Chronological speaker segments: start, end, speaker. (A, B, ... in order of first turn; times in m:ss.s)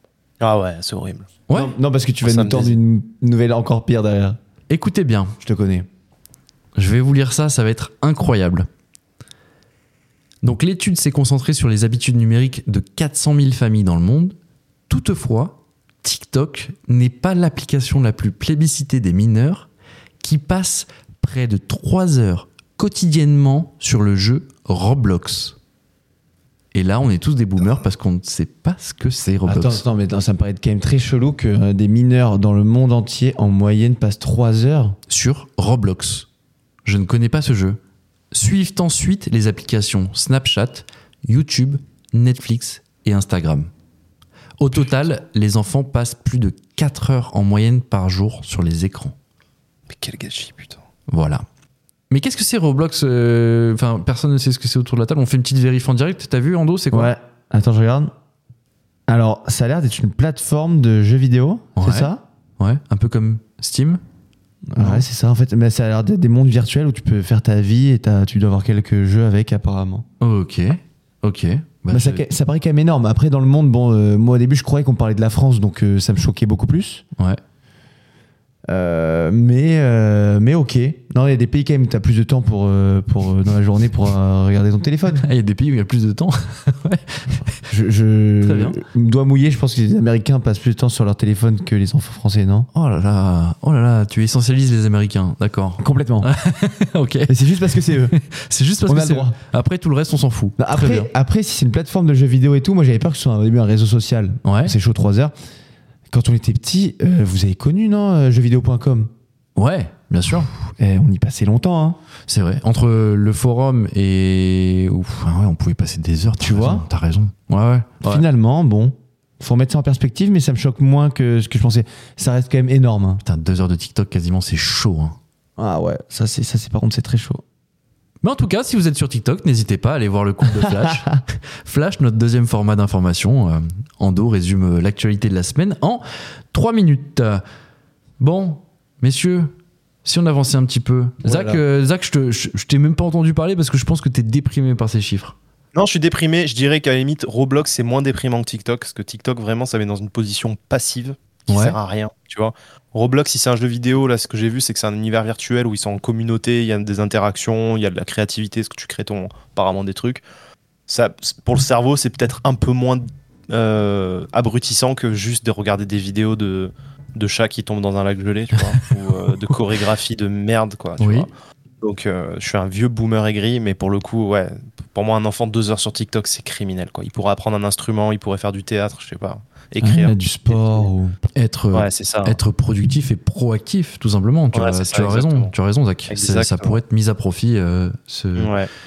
0:00.4-0:01.3 A
0:01.5-0:01.7 B
0:01.5-0:04.4 C
0:02.2-0:02.8 A
0:04.7-0:05.4 B
0:05.4-0:05.9 C
0:06.8-0:08.7 B
0:10.4-0:14.4 B
0:14.9-0:19.7 B
0:20.2-0:25.6 B
0:26.7-0:29.8 B
0:29.4-0:35.0 C
0:35.1-0:36.3 B
0:36.8-0:37.8 B
0:38.3-0:43.7 B
0:44.6-0:49.2 B
0:49.9-0:50.8 A
0:51.1-0:51.4 B
0:52.1-0:57.1 B
0:56.9-0:58.1 C
0:59.1-1:02.2 C
1:01.8-1:04.0 B
1:04.7-1:10.0 C
1:04.8-1:05.0 B
1:10.2-1:12.2 B
1:11.9-1:17.0 C
1:18.7-1:25.3 C
1:25.2-1:27.6 B
1:27.7-1:32.7 C
1:28.4-1:28.8 B
1:32.7-1:41.1 B
1:35.8-1:36.3 C
1:37.3-1:38.2 C
1:38.9-1:39.4 C
1:40.6-1:45.3 C
1:44.4-1:44.8 B
1:46.1-1:49.1 C
1:49.6-1:50.5 B
1:50.8-1:52.0 C
1:52.3-1:58.2 B
1:56.4-1:56.9 C
1:58.0-2:03.2 C
2:03.2-2:05.2 B
2:05.6-2:07.4 C
2:08.2-2:17.4 B
2:10.6-2:11.2 C
2:18.2-2:25.4 B
2:21.2-2:21.6 C
2:25.7-2:40.2 A
2:31.5-2:31.8 B
2:40.9-2:51.3 A
2:48.6-2:48.9 B
2:51.0-2:51.3 B
2:51.8-3:00.9 A
2:59.8-3:01.2 C
3:01.4-3:08.6 B
3:01.7-3:02.4 A
3:04.5-3:05.5 A
3:06.1-3:06.8 A
3:08.4-3:08.7 A